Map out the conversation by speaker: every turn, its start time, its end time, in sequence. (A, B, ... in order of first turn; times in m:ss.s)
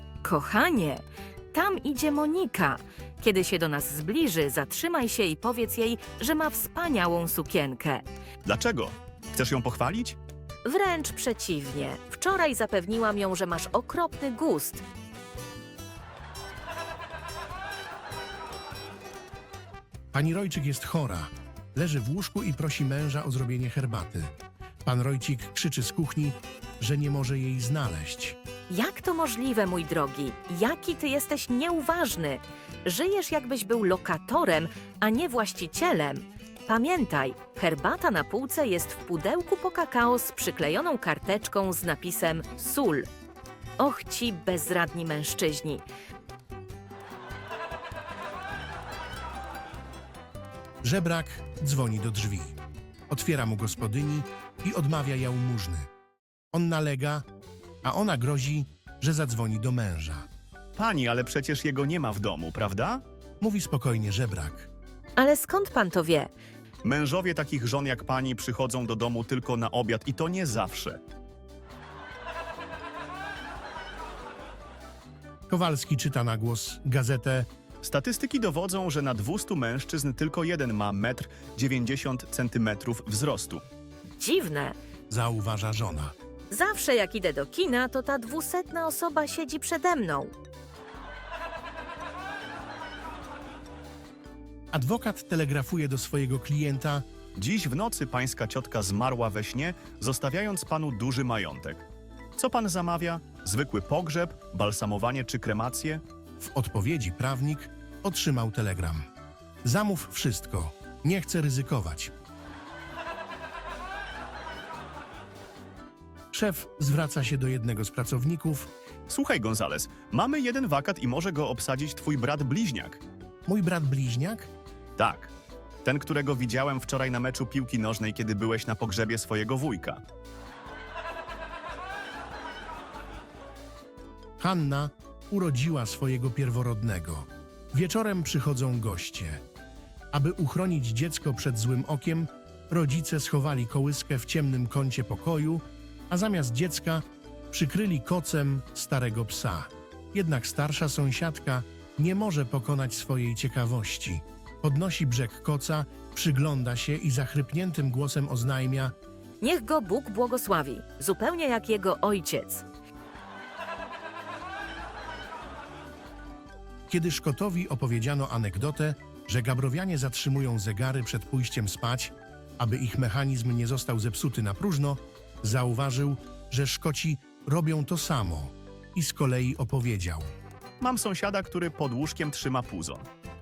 0:00.2-0:08.0 A
0:08.4-0:10.2 B
0:10.6-0:14.8 A
0:20.1-0:24.3 C
0:24.8-0:28.4 C
0:28.7-0:43.1 A
0:43.8-0:45.8 A
0:50.8-0:52.6 C
0:53.1-0:55.9 C
0:56.5-0:57.2 C
0:57.8-1:00.3 C
1:00.8-1:03.0 B
1:03.4-1:04.7 C
1:05.2-1:06.3 A
1:06.8-1:11.0 B
1:15.5-1:17.5 C
1:17.8-1:23.6 B
1:24.2-1:24.8 A
1:25.1-1:26.1 C
1:26.5-1:30.3 A
1:34.7-1:37.0 C
1:37.4-1:46.0 B
1:46.4-1:49.0 C
1:49.6-1:52.1 C
1:56.3-1:58.7 C
1:59.1-2:03.0 B
2:03.5-2:04.5 C
2:05.0-2:05.3 B
2:05.8-2:10.0 B
2:14.4-2:19.4 C
2:20.1-2:38.9 C
2:39.4-2:42.6 A
2:46.9-3:00.3 C
3:00.8-3:03.1 B